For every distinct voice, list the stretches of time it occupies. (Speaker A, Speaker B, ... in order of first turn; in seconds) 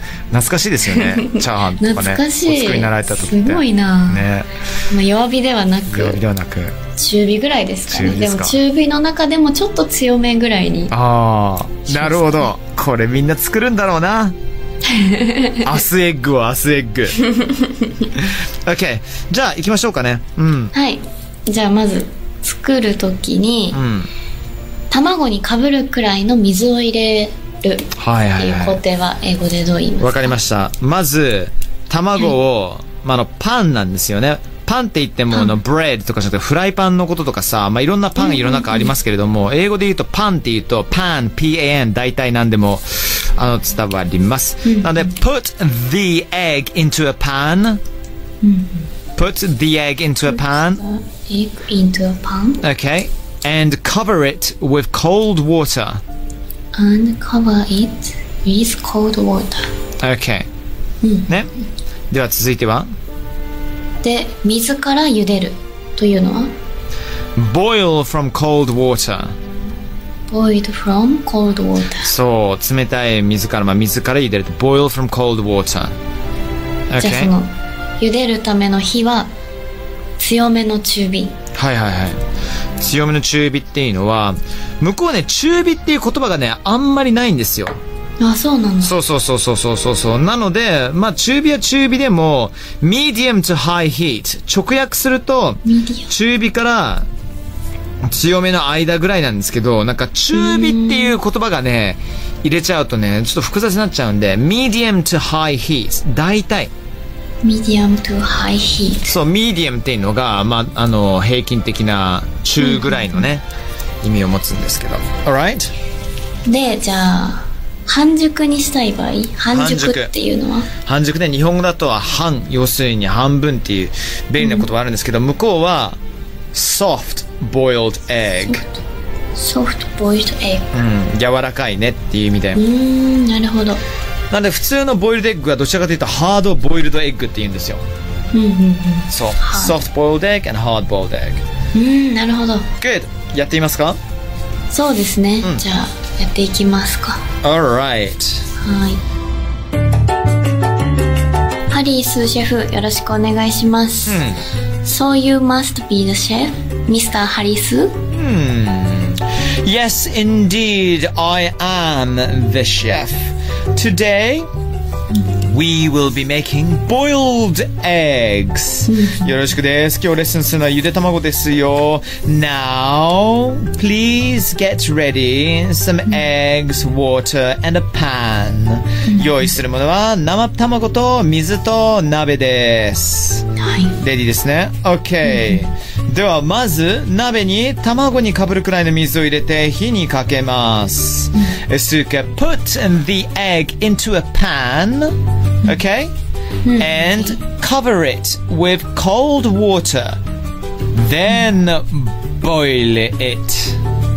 Speaker A: 0.3-4.5, 5.9-6.8, 7.9-8.5, 10.9-14.3, 15.6-17.2, 18.1-20.7, 23.7-24.1, 27.9-28.8, 30.0-47.8, 49.1-50.8, 52.6-56.0, 60.0-60.5, 62.1-62.9, 67.3-69.3, 72.0-75.9, 76.9-77.3, 81.5-82.2, 82.8-87.8, 88.8-97.1, 98.0-106.7, 109.1-113.4, 114.0-115.7, 119.5-120.1, 120.8-126.0, 126.5-128.7, 130.7-132.6, 134.3-137.8, 139.1-141.4, 142.8-144.0, 147.4-148.5, 154.1-154.4, 158.1-164.5, 165.3-183.4, 183.9-196.1, 196.7-200.2, 200.9-203.8
Speaker B: 0.9-4.3, 4.9-6.2, 7.0-10.9, 11.9-12.5, 14.8-15.8, 17.3-18.1, 20.7-23.8, 24.9-30.4, 38.2-38.9, 44.6-45.1, 48.4-48.9, 50.3-52.6, 56.7-59.7, 61.0-61.4, 64.0-66.5, 70.3-72.1, 77.0-79.3, 80.2-81.3, 88.2-89.0, 95.6-96.1, 100.3-101.2, 107.4-109.1, 112.6-113.3, 116.5-120.7, 124.4-124.7, 128.4-128.8, 129.3-130.7, 132.6-133.8, 138.3-139.8, 141.7-142.7, 144.7-147.2, 148.6-149.0, 151.7-154.2, 154.8-158.0, 168.9-169.3, 179.1-179.4, 183.6-184.0, 185.2-185.6, 196.7-197.3